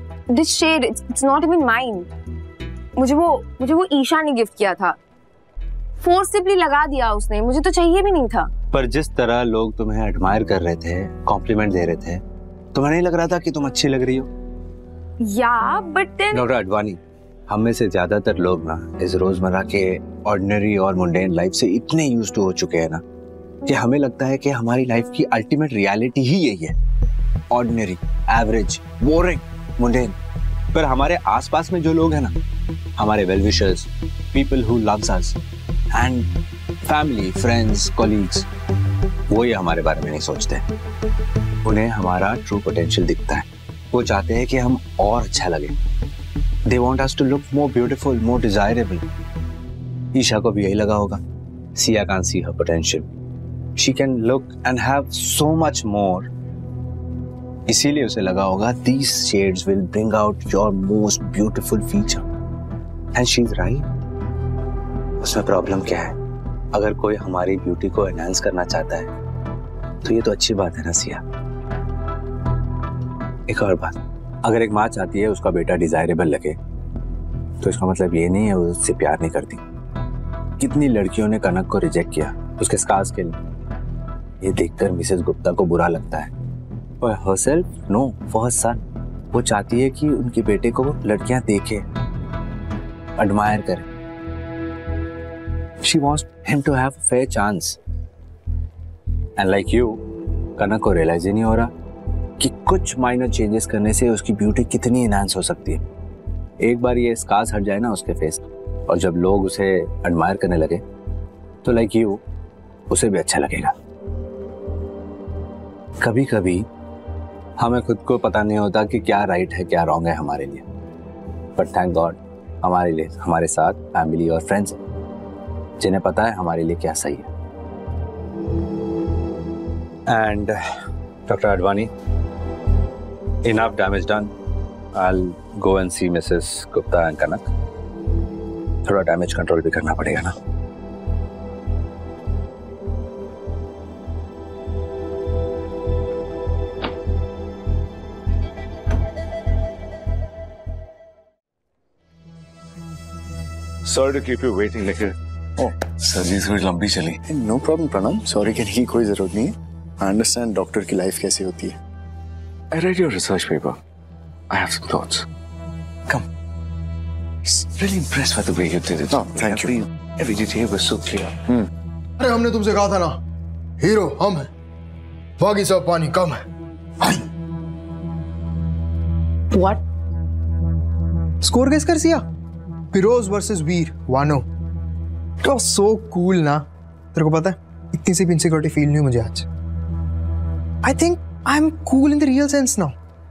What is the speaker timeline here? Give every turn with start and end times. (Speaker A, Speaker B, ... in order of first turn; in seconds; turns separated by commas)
Speaker A: 0.3-2.1, Speaker A: 3.0-5.0, Speaker A: 6.0-8.5, Speaker B: 8.7-12.2, Speaker B: 12.7-14.3, Speaker A: 15.2-16.4, Speaker B: 16.3-23.0, Speaker B: 23.7-26.8, Speaker B: 27.5-30.1, Speaker B: 30.7-32.3, Speaker B: 33.0-35.4, Speaker B: 35.9-36.3, Speaker B: 36.9-38.5, Speaker B: 39.3-40.6, Speaker B: 41.6-45.8, Speaker B: 46.7-49.0, Speaker B: 50.1-51.2, Speaker B: 51.8-53.1, Speaker B: 53.8-56.3, Speaker B: 57.7-62.2, Speaker B: 63.1-63.9, Speaker B: 65.2-66.1, Speaker B: 66.7-69.1, Speaker B: 70.0-71.2, Speaker B: 73.5-76.6, Speaker B: 77.6-79.6, Speaker B: 80.6-83.3, Speaker B: 84.4-86.3, Speaker B: 87.0-88.8, Speaker B: 89.3-91.8, Speaker B: 93.2-93.8, Speaker B: 95.8-97.8, Speaker B: 99.4-100.0, Speaker B: 100.6-101.7, Speaker B: 102.4-105.8, Speaker B: 106.6-110.8, Speaker B: 111.6-112.2, Speaker B: 112.9-113.7, Speaker B: 116.0-116.7, Speaker B: 117.6-120.6, Speaker B: 121.6-124.8, Speaker B: 125.8-127.3, Speaker B: 130.1-130.6, Speaker B: 131.3-131.9, Speaker B: 133.4-134.3, Speaker B: 134.9-137.4, Speaker B: 138.8-140.3, Speaker C: 153.9-155.2, Speaker C: 155.9-157.2, Speaker D: 157.2-161.8, Speaker C: 162.7-163.8, Speaker C: 164.5-165.3, Speaker C: 167.5-171.4, Speaker D: 169.1-169.8, Speaker E: 172.2-173.2, Speaker E: 173.8-174.5, Speaker E: 175.4-176.4, Speaker A: 179.5-179.8, Speaker E: 181.4-182.2, Speaker E: 182.9-184.4, Speaker E: 185.4-189.5, Speaker E: 190.8-192.9